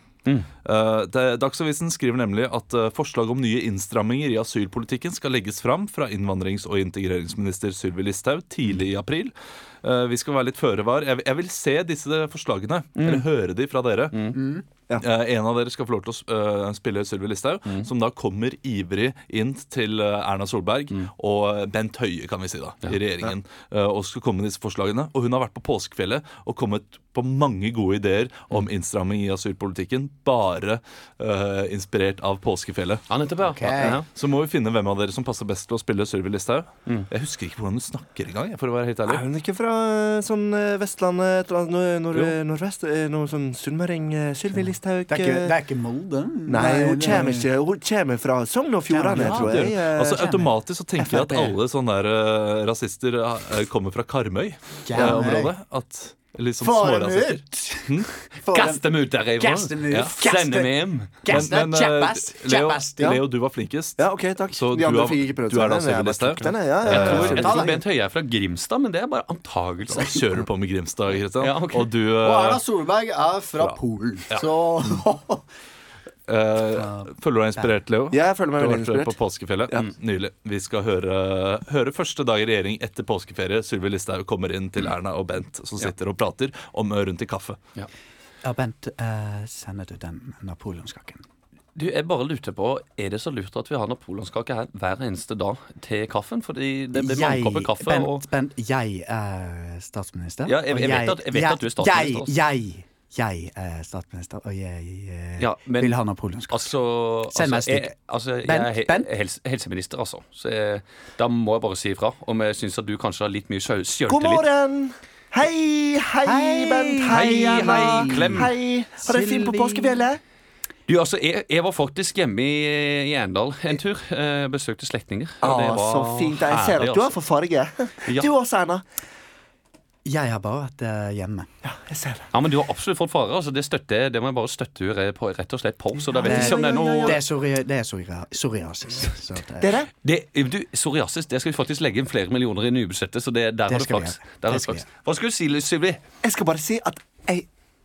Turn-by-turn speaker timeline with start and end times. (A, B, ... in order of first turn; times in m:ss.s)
0:00.6-0:14.4 A
0:13.0-0:13.2 B
0:14.1-0:14.4 B
0:14.3-0:14.6 C
0:15.0-0:33.0 A
0:33.1-0:34.0 B
0:33.5-0:34.0 C
0:33.7-0:39.2 A
0:39.0-0:45.6 D
0:44.5-0:47.5 C
0:46.5-0:50.3 D
0:48.9-0:50.5 C
0:49.1-0:58.1 A
0:51.0-0:51.6 D
0:54.8-0:55.5 C
0:56.6-0:58.8 C
0:58.5-1:01.5 B
0:59.4-1:03.2 C
1:01.3-1:07.7 A
1:03.0-1:03.2 D
1:04.0-1:07.8 D
1:06.8-1:10.2 B
1:07.1-1:07.7 C
1:09.9-1:12.6 A
1:11.4-1:11.9 B
1:12.2-1:15.4 C
1:16.3-1:27.6 A
1:16.8-1:17.8 C
1:18.1-1:19.2 D
1:28.4-1:31.2 C
1:31.7-1:38.2 B
1:36.9-1:46.7 C
1:40.4-1:42.3 B
1:45.4-1:46.0 B
1:46.5-1:54.4 B
1:47.3-1:47.9 C
1:48.4-1:49.1 C
1:54.1-2:00.2 D
1:56.2-1:58.5 C
1:57.1-1:58.5 B
1:59.0-2:00.0 C
2:00.9-2:07.1 B
2:05.4-2:08.8 D
2:10.0-2:11.5 C
2:11.6-2:12.3 D
2:12.3-2:17.2 B
2:16.0-2:17.2 D
2:16.2-2:19.7 C
2:19.6-2:19.9 D
2:20.0-2:26.0 B
2:23.7-2:24.8 C
2:26.2-2:27.5 D